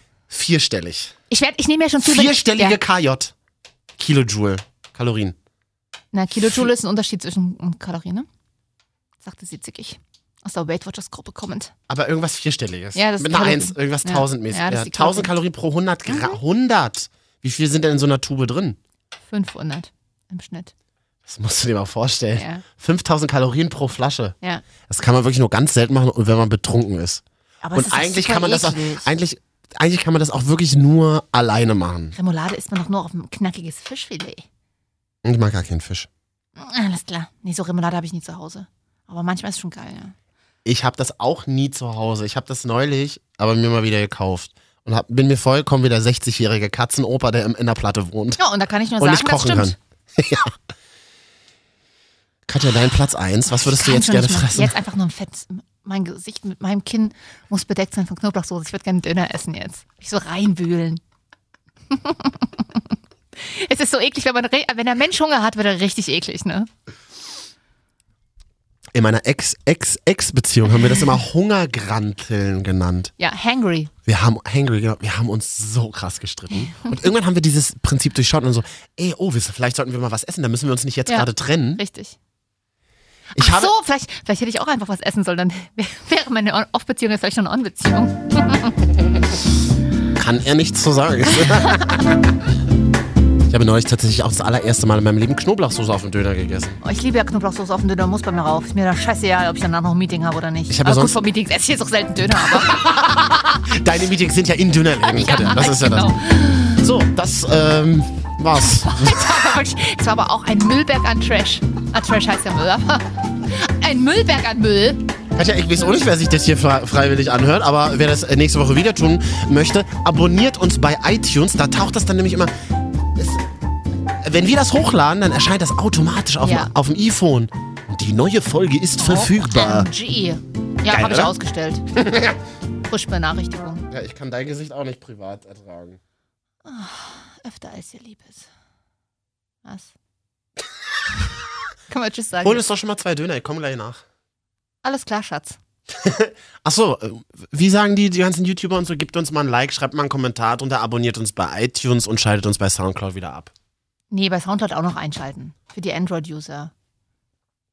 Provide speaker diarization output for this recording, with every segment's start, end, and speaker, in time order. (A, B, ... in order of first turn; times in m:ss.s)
0:00.3-0:01.1 A
0:01.3-0:02.8 B
0:02.0-0:03.3 A
0:04.0-0:05.4 A
0:06.1-0:08.3 B
0:09.2-0:11.7 B
0:11.9-0:18.8 A
0:12.9-0:15.3 B
0:16.1-0:16.4 B
0:19.3-0:20.7 B
0:21.2-0:24.4 A
0:22.3-0:22.6 B
0:24.9-0:27.2 A
0:27.6-0:29.1 B
0:27.7-0:32.2 A
0:32.1-0:34.4 B
0:35.2-0:36.1 A
0:36.6-0:40.1 B
0:40.6-0:48.4 A
0:48.4-0:49.8 B
0:49.0-0:50.5 A
0:52.5-0:54.7 A
0:53.5-1:01.0 B
1:01.9-1:06.7 B
1:08.9-1:13.1 A
1:13.2-1:13.9 B
1:14.0-1:21.8 A
1:21.1-1:22.2 B
1:23.3-1:28.8 B
1:23.4-1:23.7 A
1:30.1-1:32.1 A
1:31.5-1:31.7 B
1:33.5-1:36.8 A
1:36.8-1:42.8 B
1:40.7-1:41.2 A
1:42.7-1:46.2 A
1:45.0-1:46.8 B
1:46.7-1:49.2 A
1:48.6-1:55.1 B
1:55.3-2:02.5 A
2:03.2-2:03.4 A
2:04.2-2:09.9 A
2:06.4-2:06.7 B
2:09.0-2:11.8 B
2:10.9-2:11.3 A
2:11.9-2:12.4 A
2:12.8-2:13.9 B
2:13.9-2:16.0 A
2:16.6-2:18.4 B
2:19.6-2:19.9 B
2:21.9-2:22.6 B
2:22.4-2:24.0 A
2:24.8-2:25.6 B
2:26.0-2:33.5 A
2:34.1-2:36.7 B